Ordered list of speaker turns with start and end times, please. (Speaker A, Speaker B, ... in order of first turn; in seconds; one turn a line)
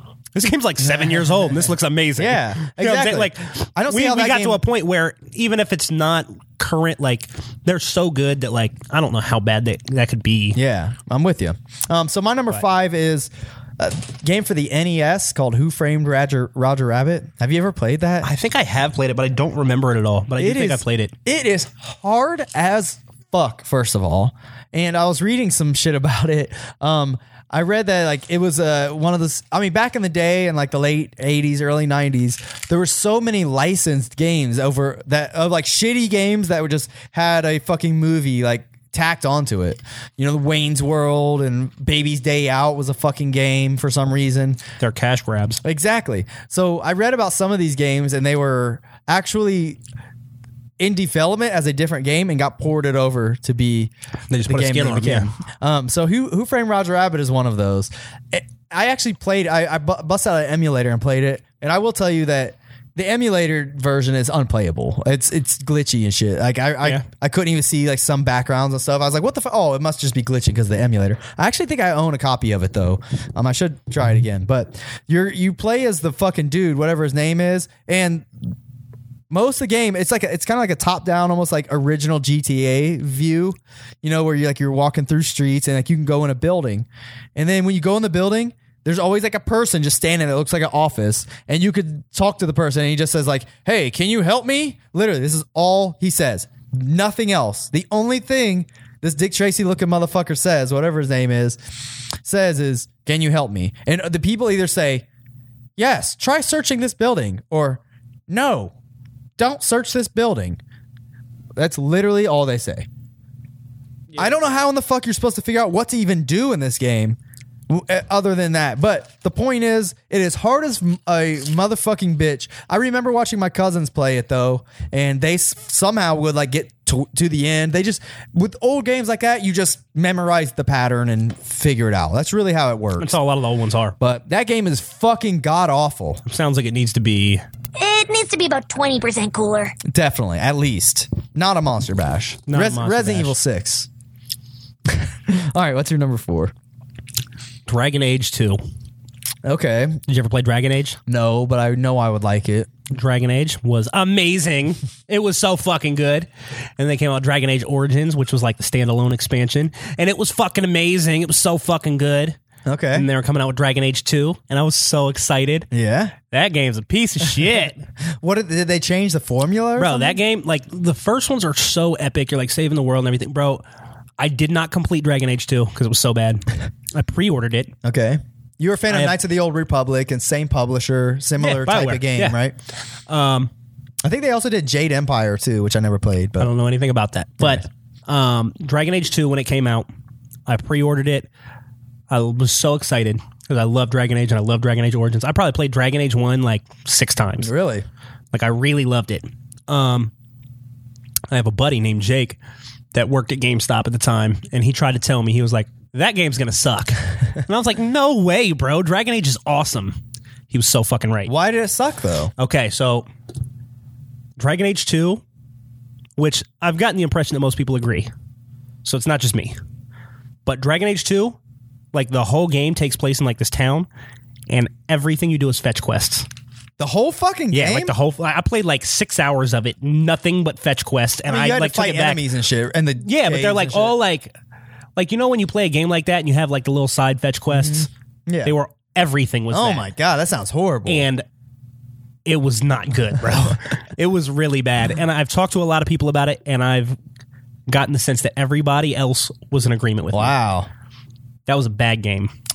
Speaker A: 0.3-10.6
Speaker B: 0.9-1.5
Speaker B: 2.2-4.6
Speaker B: 10.5-18.3
Speaker A: 18.2-21.1
Speaker B: 20.4-44.6
Speaker A: 44.8-45.6
Speaker B: 45.6-49.8
Speaker B: 50.8-53.9
Speaker A: 54.3-55.3
Speaker B: 54.4-78.5
Speaker B: 79.3-101.6
Speaker B: 102.2-105.0
Speaker B: 105.8-108.7
Speaker B: 109.4-110.6
Speaker B: 111.5-112.9
Speaker B: 114.1-117.2
Speaker B: 117.7-133.2
Speaker A: 133.0-133.9
Speaker B: 134.0-136.2
Speaker A: 136.2-137.4
Speaker C: 137.8-139.7
Speaker B: 139.9-143.9
Speaker A: 142.5-143.3
Speaker B: 144.9-146.5
Speaker A: 147.7-148.6
Speaker B: 149.4-150.0
Speaker A: 150.1-151.0
Speaker B: 151.1-152.7
Speaker A: 152.9-162.4
Speaker B: 162.7-163.1
Speaker A: 162.9-165.7
Speaker B: 165.7-166.1
Speaker A: 166.3-167.8
Speaker B: 168.2-170.2
Speaker A: 169.8-173.6
Speaker A: 174.2-177.7
Speaker B: 177.8-182.5
Speaker A: 178.9-179.2
Speaker A: 181.4-182.4
Speaker A: 183.1-183.5
Speaker B: 184.0-186.5
Speaker A: 186.4-189.9
Speaker A: 190.5-191.3
Speaker A: 192.1-197.5
Speaker B: 197.4-197.8
Speaker A: 198.3-200.1
Speaker A: 201.3-202.4
Speaker A: 202.9-210.0
Speaker A: 210.5-211.3
Speaker B: 211.3-212.3
Speaker A: 212.4-213.1
Speaker A: 214.4-215.2
Speaker A: 216.2-218.1
Speaker A: 218.8-219.6
Speaker A: 220.4-221.4
Speaker A: 221.9-223.9
Speaker A: 224.5-226.3
Speaker B: 226.8-227.9
Speaker A: 227.5-232.2
Speaker B: 231.3-234.0
Speaker A: 233.0-234.3
Speaker A: 234.9-237.9
Speaker B: 237.5-238.5
Speaker A: 238.4-239.9
Speaker B: 239.5-241.1
Speaker A: 240.8-241.2
Speaker A: 242.2-247.0
Speaker A: 247.7-250.3
Speaker B: 250.1-250.7
Speaker A: 251.5-252.3